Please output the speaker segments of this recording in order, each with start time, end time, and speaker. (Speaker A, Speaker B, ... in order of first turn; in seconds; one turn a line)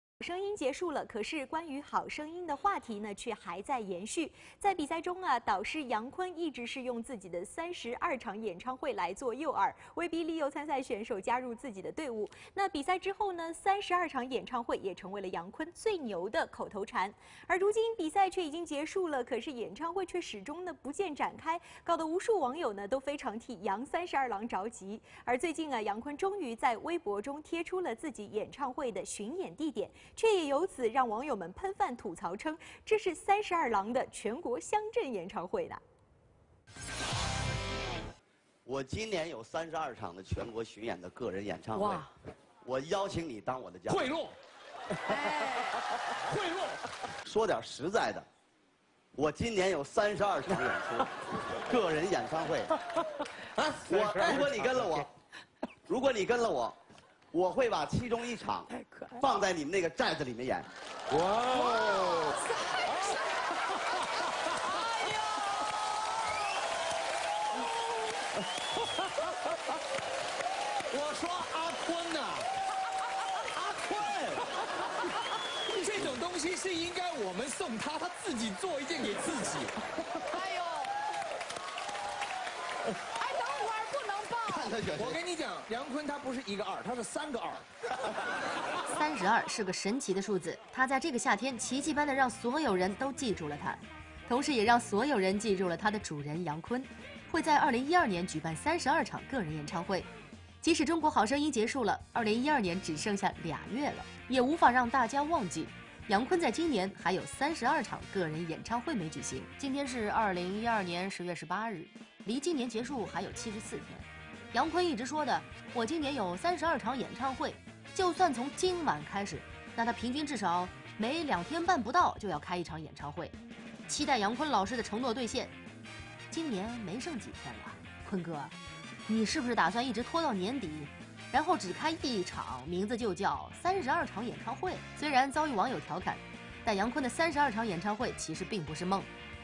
Speaker A: 0.2-35.8
Speaker B: 38.6-42.1
Speaker B: 42.6-44.1
Speaker C: 43.9-44.4
Speaker C: 45.0-46.8
Speaker B: 47.2-48.3
Speaker B: 49.1-52.7
Speaker C: 53.4-54.6
Speaker B: 53.8-55.1
Speaker B: 55.9-56.8
Speaker B: 57.3-60.7
Speaker C: 61.1-63.2
Speaker B: 61.8-62.2
Speaker C: 63.9-65.1
Speaker C: 69.0-69.3
Speaker C: 70.9-72.5
Speaker C: 73.3-80.6
Speaker C: 83.2-87.7
Speaker B: 84.4-85.2
Speaker D: 88.8-100.1
Speaker D: 100.6-123.3
Speaker D: 123.9-125.5
Speaker D: 126.3-128.5
Speaker D: 129.1-139.1